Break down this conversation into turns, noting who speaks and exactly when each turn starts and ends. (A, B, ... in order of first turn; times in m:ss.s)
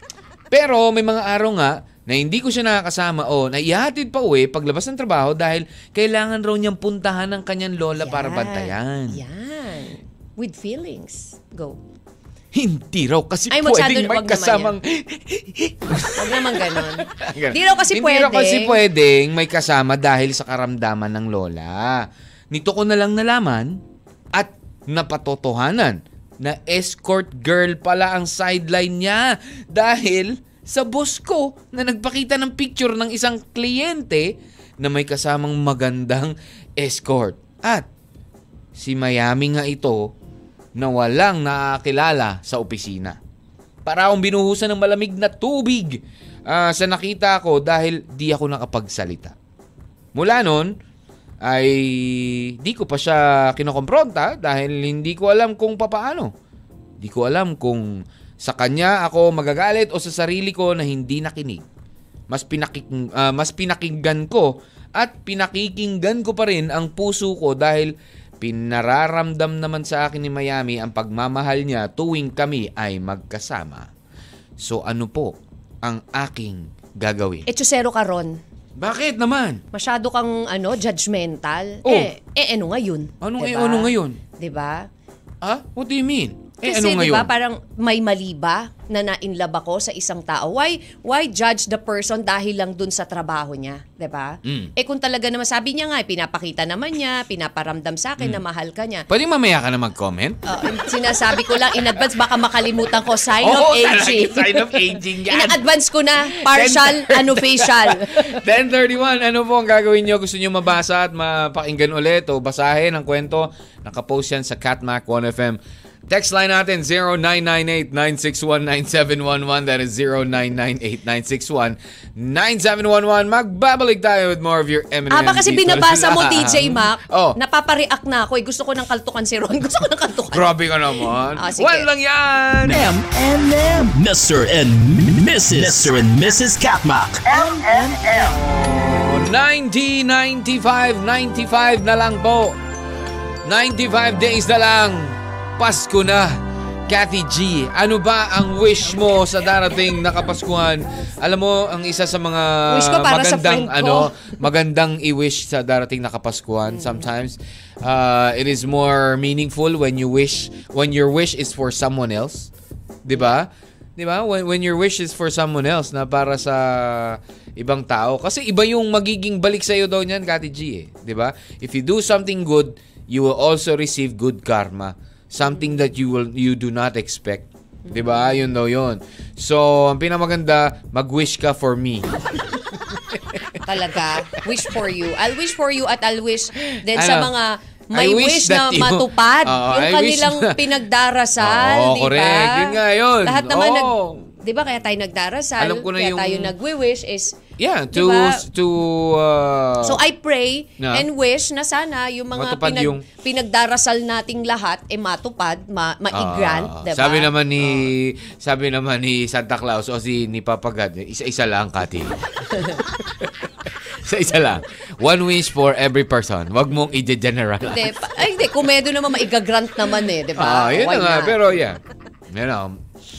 0:00.5-0:09.2 A
0:08.0-0:11.8 B
0:12.5-0:23.8 A
0:13.5-0:14.8 B
0:16.2-0:18.8 B
0:24.3-0:37.9 A
0:38.8-0:40.1 A
0:40.8-0:43.2 A
0:43.8-0:49.4 A
0:50.2-0:50.7 A
0:51.4-0:56.3 A
0:57.0-1:01.7 A
1:02.3-1:13.9 A
1:14.6-1:17.5 A
1:17.5-1:18.4 B
1:18.8-1:19.6 A
1:19.7-1:24.9 B
1:21.8-1:22.1 A
1:23.2-1:24.2 A
1:25.4-1:27.3 A
1:26.6-1:39.1 B
1:34.4-1:34.7 A
1:39.1-1:40.9 A
1:40.5-1:48.4 B
1:41.5-1:41.9 A
1:43.4-1:45.6 A
1:46.3-2:07.4 A
2:05.1-2:11.9 B
2:10.3-2:12.9 A
2:12.6-2:18.3 C
2:17.4-2:18.3 B
2:18.3-2:22.6 A
2:23.4-2:26.4 A
2:26.9-2:42.5 A
2:32.7-2:34.1 B
2:43.0-3:02.1 A
2:57.9-2:58.4 B
3:02.9-3:03.6 A
3:03.6-3:17.4 B
3:06.7-3:07.3 A
3:07.9-3:10.6 A
3:11.4-3:14.3 A
3:15.6-3:16.5 A
3:17.6-3:20.0 A
3:17.9-3:18.4 B
3:19.8-3:27.9 B
3:20.8-3:21.1 A
3:22.3-3:23.0 A
3:26.1-3:32.2 A
3:32.5-3:32.8 B
3:32.7-3:33.3 A
3:34.0-3:37.9 A
3:37.6-3:41.4 B
3:40.4-3:41.8 A
3:42.3-3:42.8 A